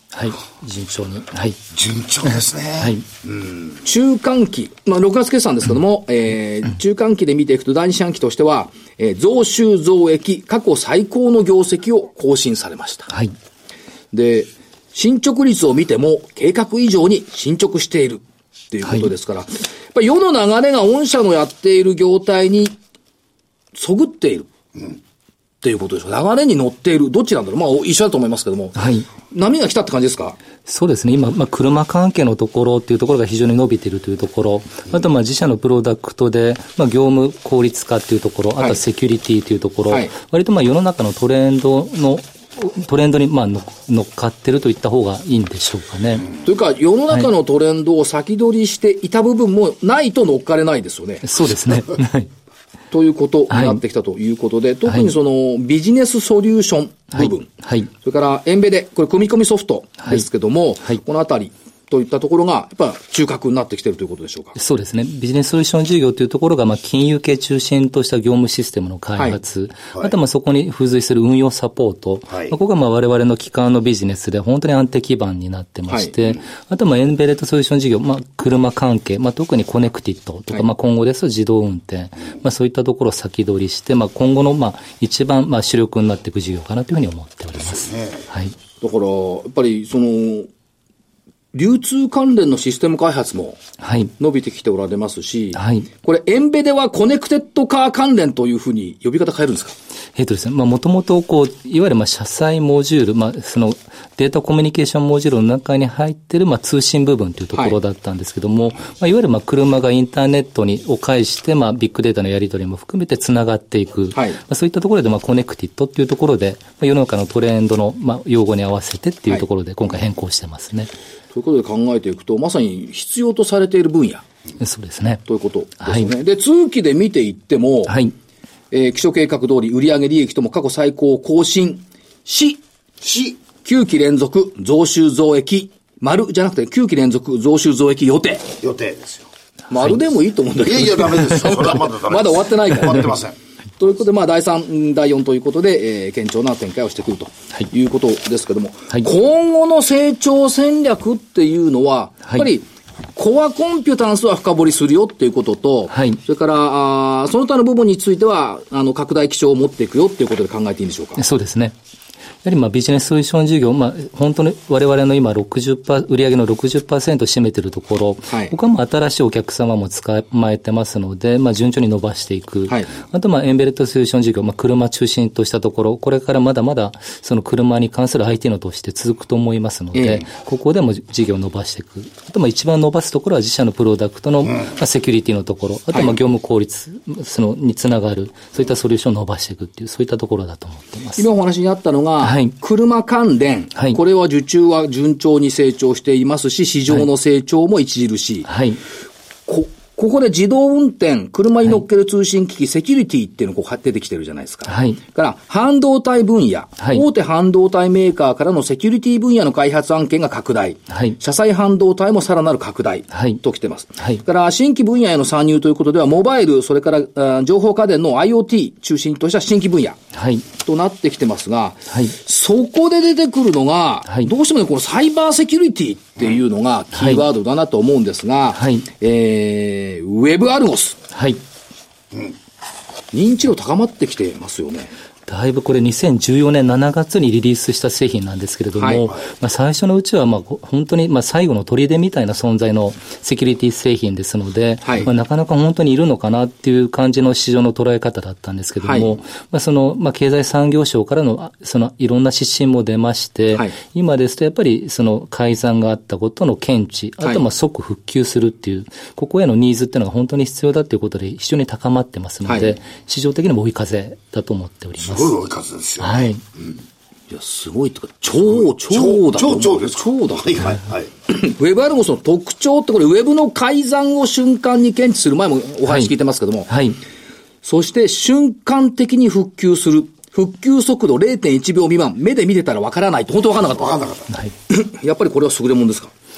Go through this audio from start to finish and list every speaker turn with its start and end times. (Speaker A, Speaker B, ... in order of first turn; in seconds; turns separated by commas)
Speaker A: 0.1-1.6, Speaker B: 1.7-3.8, Speaker C: 3.8-13.1, Speaker C: 14.1-22.8, Speaker C: 23.7-24.5, Speaker C: 25.6-30.4, Speaker A: 28.8-29.1, Speaker A: 30.6-46.3, Speaker C: 46.4-51.3, Speaker A: 51.2-52.3, Speaker C: 52.9-64.6, Speaker A: 53.5-53.8, Speaker A: 57.1-57.9, Speaker A: 64.5-88.5, Speaker B: 72.3-72.5, Speaker C: 75.9-76.1, Speaker B: 87.7-88.3, Speaker C: 88.8-90.5, Speaker C: 91.5-93.6, Speaker A: 93.8-94.1, Speaker C: 94.2-99.7, Speaker A: 95.5-95.9, Speaker A: 100.1-120.9, Speaker C: 114.1-114.4, Speaker C: 121.3-124.2, Speaker A: 124.6-125.2, Speaker C: 125.2-127.9, Speaker A: 125.8-126.1, Speaker A: 127.9-128.1, Speaker C: 128.7-132.6, Speaker B: 133.0-133.4, Speaker C: 133.6-138.5, Speaker B: 138.6-139.3, Speaker C: 139.7-143.1, Speaker B: 140.6-143.4, Speaker C: 143.8-161.2, Speaker A: 155.9-156.2, Speaker A: 161.2-161.7, Speaker A: 162.4-191.2, Speaker C: 168.3-168.5, Speaker C: 179.9-180.3, Speaker C: 185.9-186.2, Speaker C: 191.2-198.5, Speaker A: 192.2-192.5, Speaker A: 198.4-198.8, Speaker C: 199.5-220.0, Speaker A: 204.7-205.0, Speaker A: 210.9-211.2, Speaker A: 213.1-213.4, Speaker A: 220.1-220.4, Speaker C: 220.6-231.0, Speaker A: 226.9-227.2, Speaker A: 228.5-228.8, Speaker A: 231.1-231.4, Speaker C: 233.1-234.9, Speaker A: 235.3-265.3, Speaker C: 238.8-239.1, Speaker C: 244.8-245.1, Speaker C: 248.8-249.2, Speaker C: 262.4-262.8, Speaker B: 265.0-266.7, Speaker A: 266.0-266.4, Speaker C: 267.3-270.7, Speaker B: 268.8-271.1, Speaker C: 271.3-276.7, Speaker A: 276.7-277.0, Speaker C: 277.6-284.0, Speaker B: 283.7-284.3, Speaker C: 284.7-286.1